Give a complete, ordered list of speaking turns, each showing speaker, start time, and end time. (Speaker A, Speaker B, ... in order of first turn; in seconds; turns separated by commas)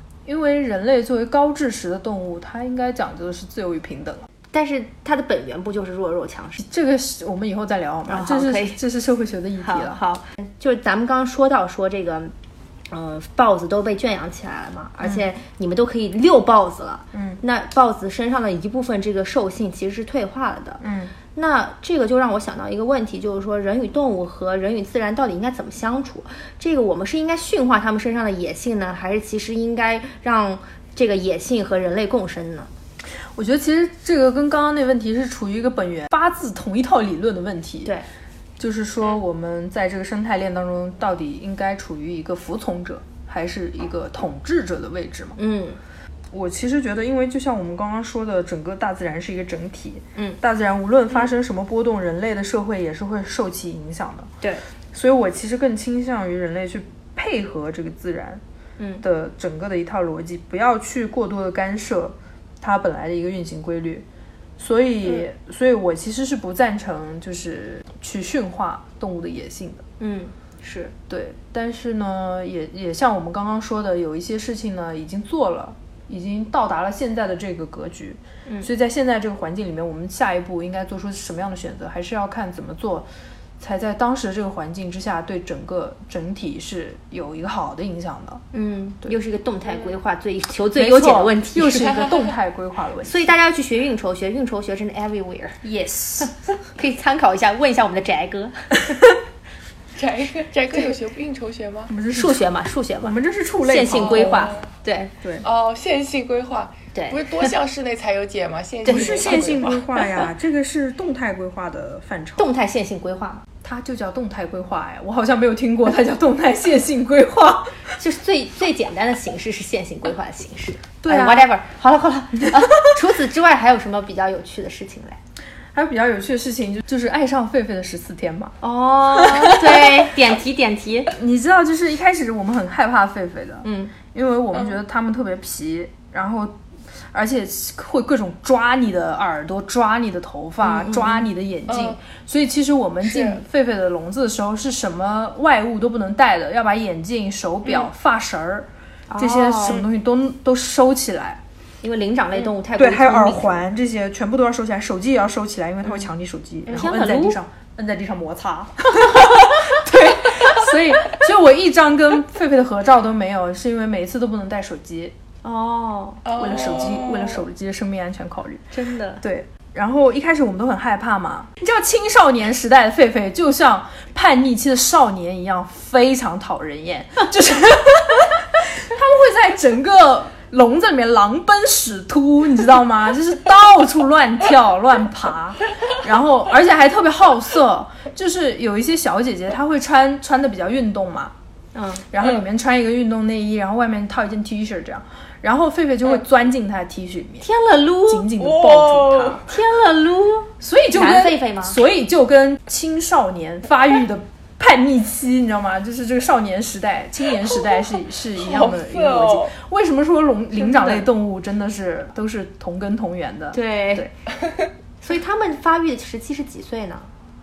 Speaker A: 0.2-4.3, Speaker B: 4.5-6.6, Speaker A: 6.6-10.0, Speaker B: 8.1-8.8, Speaker B: 9.6-12.3, Speaker B: 12.9-20.8, Speaker A: 15.0-15.2, Speaker A: 17.1-17.4, Speaker A: 20.8-21.1, Speaker B: 21.3-32.7, Speaker A: 33.3-37.9, Speaker A: 38.6-45.4, Speaker B: 45.4-45.8, Speaker A: 46.3-54.3, Speaker A: 54.9-58.4, Speaker B: 58.8-59.0, Speaker A: 59.0-64.0, Speaker A: 64.6-69.8, Speaker B: 70.0-70.9, Speaker A: 71.1-83.1, Speaker A: 83.6-88.4, Speaker B: 88.5-92.0, Speaker A: 90.7-93.3, Speaker C: 91.7-92.4, Speaker B: 93.0-95.6, Speaker A: 95.6-96.5, Speaker B: 96.2-98.8, Speaker C: 100.0-101.9, Speaker A: 101.9-102.4, Speaker B: 102.1-105.1, Speaker A: 103.0-104.6, Speaker C: 103.9-104.7, Speaker C: 105.4-110.0, Speaker B: 106.9-107.5, Speaker B: 108.8-109.6, Speaker A: 108.9-112.5, Speaker B: 112.4-113.4, Speaker A: 113.6-117.7, Speaker B: 118.0-125.2, Speaker A: 121.0-121.5, Speaker A: 125.7-128.6, Speaker B: 128.6-131.1, Speaker A: 129.1-130.1, Speaker A: 131.1-136.6, Speaker B: 133.6-133.9, Speaker A: 137.1-151.4, Speaker B: 140.6-141.3, Speaker C: 141.7-142.0, Speaker C: 143.0-143.4, Speaker B: 149.1-149.8, Speaker B: 151.8-153.6, Speaker A: 152.7-165.1, Speaker B: 156.7-157.4, Speaker B: 165.4-166.2, Speaker C: 166.2-167.4, Speaker A: 166.3-191.3, Speaker B: 168.7-169.2, Speaker B: 191.7-192.1, Speaker A: 192.1-197.5, Speaker B: 197.4-198.3, Speaker A: 198.1-199.4, Speaker C: 198.4-199.4, Speaker B: 199.5-201.8, Speaker A: 200.6-214.1, Speaker C: 208.4-209.5, Speaker B: 210.5-211.1, Speaker B: 213.5-214.1, Speaker B: 215.0-217.1